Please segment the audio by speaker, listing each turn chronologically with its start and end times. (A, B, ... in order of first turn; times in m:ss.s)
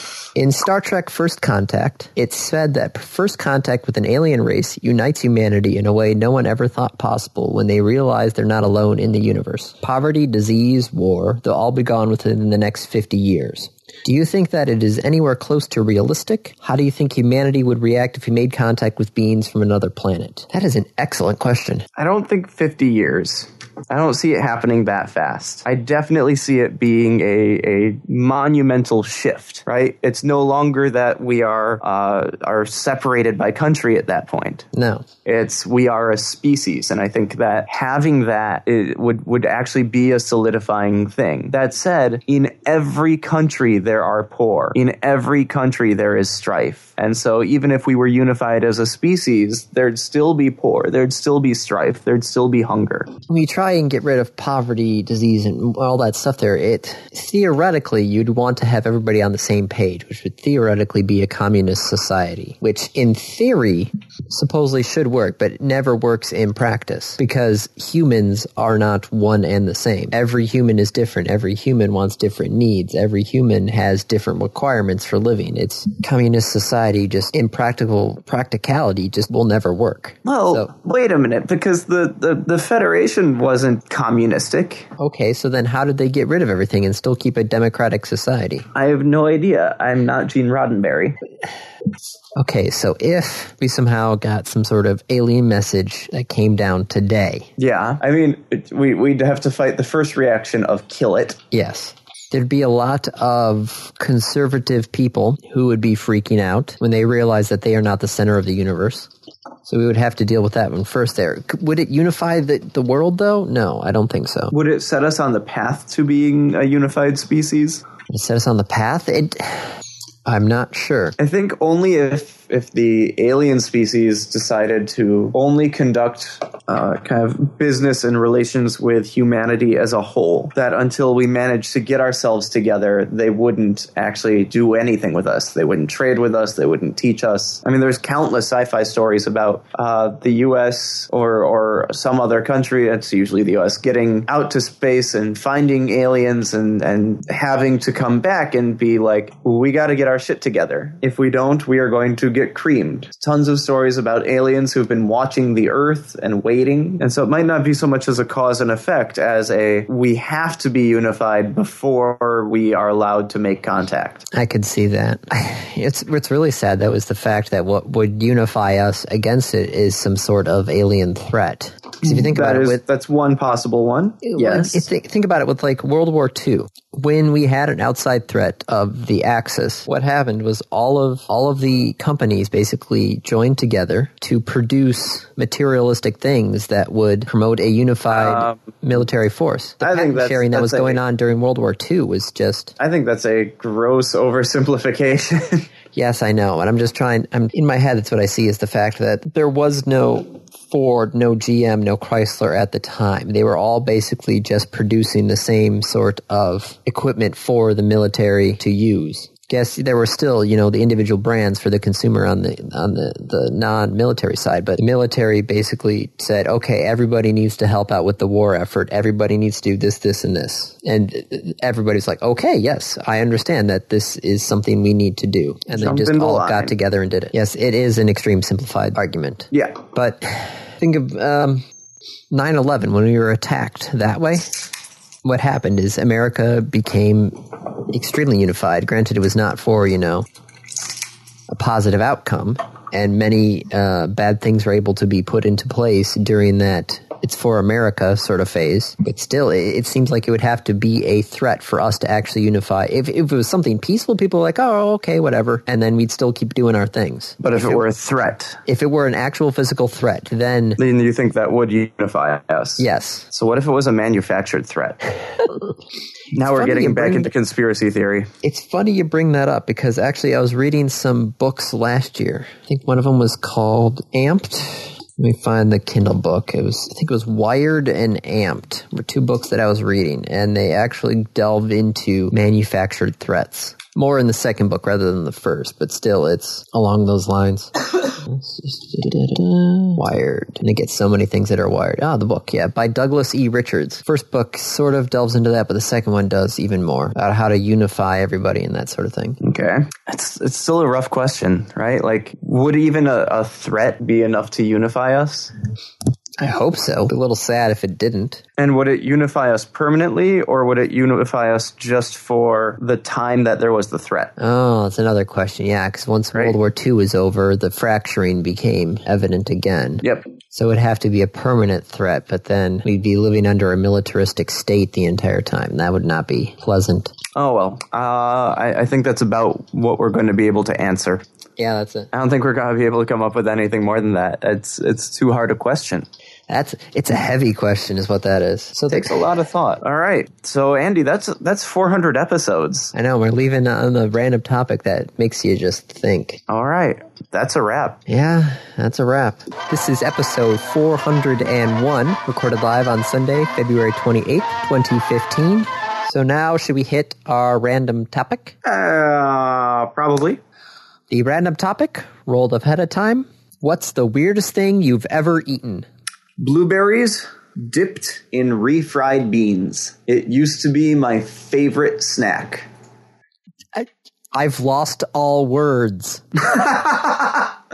0:00.3-0:21.8 A
0:22.0-0:34.6 B
0:34.7-0:35.0 A
0:35.2-0:53.1 B
0:53.3-1:20.7 A
1:20.2-1:24.9 B
1:25.0-1:28.6 A
1:28.7-1:31.2 B
1:32.4-1:37.5 A
1:37.6-1:41.4 B
1:41.5-1:49.1 A
1:49.6-1:54.5 A
1:54.5-1:57.8 B
1:58.1-1:59.7 A
2:00.2-2:01.2 A
2:01.2-2:44.3 B
2:44.3-2:52.8 A
2:52.0-2:54.8 B
2:54.2-3:12.7 A
3:08.1-3:08.6 B
3:09.8-3:11.0 B
3:12.8-3:15.7 B
3:15.9-3:51.6 A
3:45.7-3:46.7 B
3:49.5-3:49.8 B
3:52.3-3:54.4 A
3:55.2-4:00.2 A
4:01.5-4:17.8 A
4:17.4-4:18.6 B
4:18.6-4:20.8 A
4:20.8-4:25.0 B
4:22.8-4:23.3 A
4:26.3-4:28.3 B
4:26.4-4:27.3 A
4:28.4-4:59.4 A
4:59.4-5:05.5 B
5:06.4-5:08.4 A
5:08.6-5:14.3 B
5:14.4-5:27.1 A
5:20.0-5:20.3 B
5:27.3-5:31.2 B
5:31.6-5:32.1 A
5:32.1-5:36.1 B
5:36.5-5:39.2 A
5:38.9-5:42.9 B
5:42.9-5:46.4 A
5:46.5-5:48.0 B
5:48.1-5:58.5 A
5:58.6-6:00.4 B
6:01.1-6:05.9 A
6:06.4-6:12.7 B
6:13.7-6:16.2 A
6:16.5-6:17.5 B